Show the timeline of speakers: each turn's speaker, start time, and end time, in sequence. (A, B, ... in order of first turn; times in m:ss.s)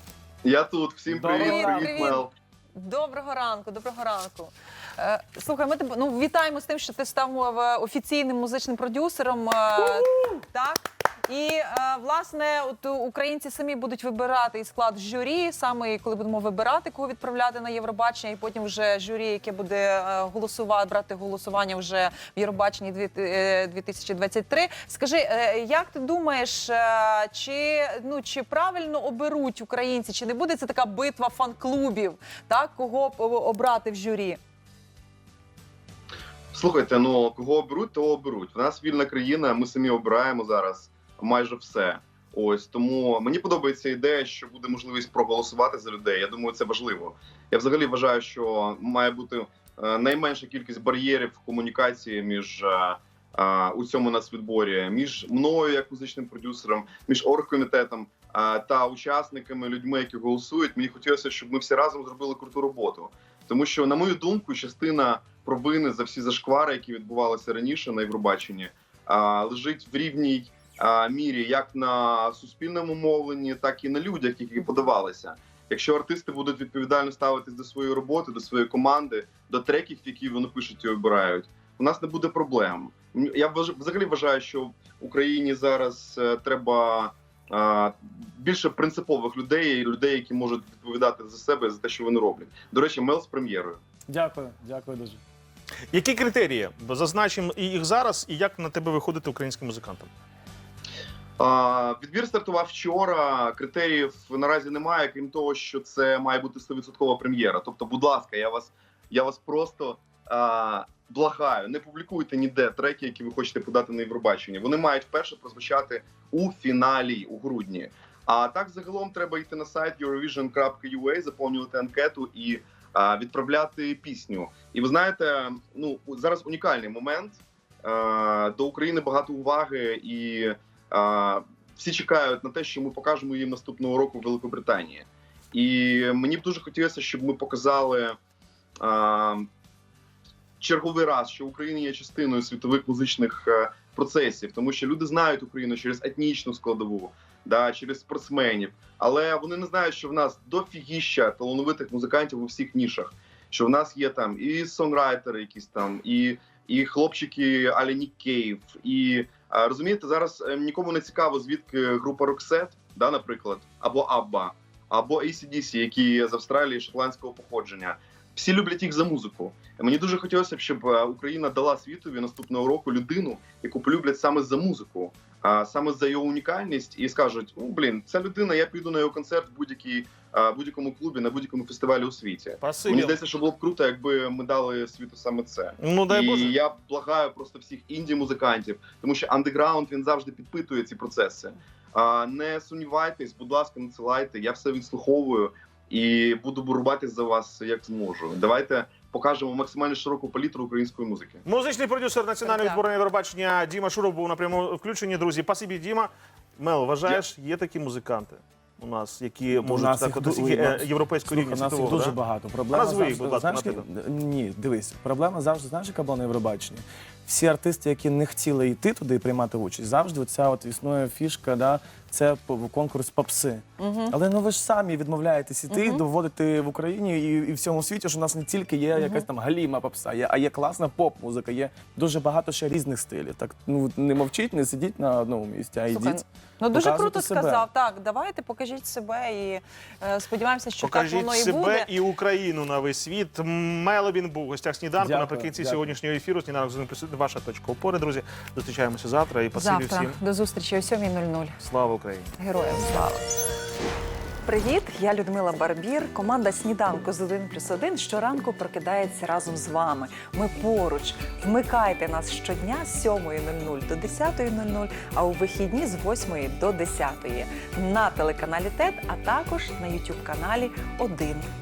0:00.4-0:02.3 A
0:01.1-0:02.2 B
0:01.4-0:02.2 C
0:02.8-0:34.4 C
0:36.5-1:33.8 A
1:34.1-1:35.2 B
1:35.9-1:40.1 D
1:41.4-2:18.2 A
2:18.8-2:19.5 A
2:20.6-3:21.4 A
3:02.6-3:03.2 D
3:05.8-3:06.6 D
3:21.4-3:32.2 D
3:22.4-3:22.8 C
3:29.5-3:57.7 B
3:32.7-3:33.8 D
3:43.8-3:44.1 C
3:45.7-3:46.0 C
3:49.0-3:49.2 C
3:55.9-4:01.9 C
4:00.8-4:10.2 D
4:05.0-4:06.0 B
4:09.5-4:11.6 C
4:11.6-4:12.3 D
4:12.4-4:13.2 C
4:14.5-4:18.6 C
4:19.9-4:21.5 C
4:24.5-4:25.2 C
4:26.7-4:27.1 C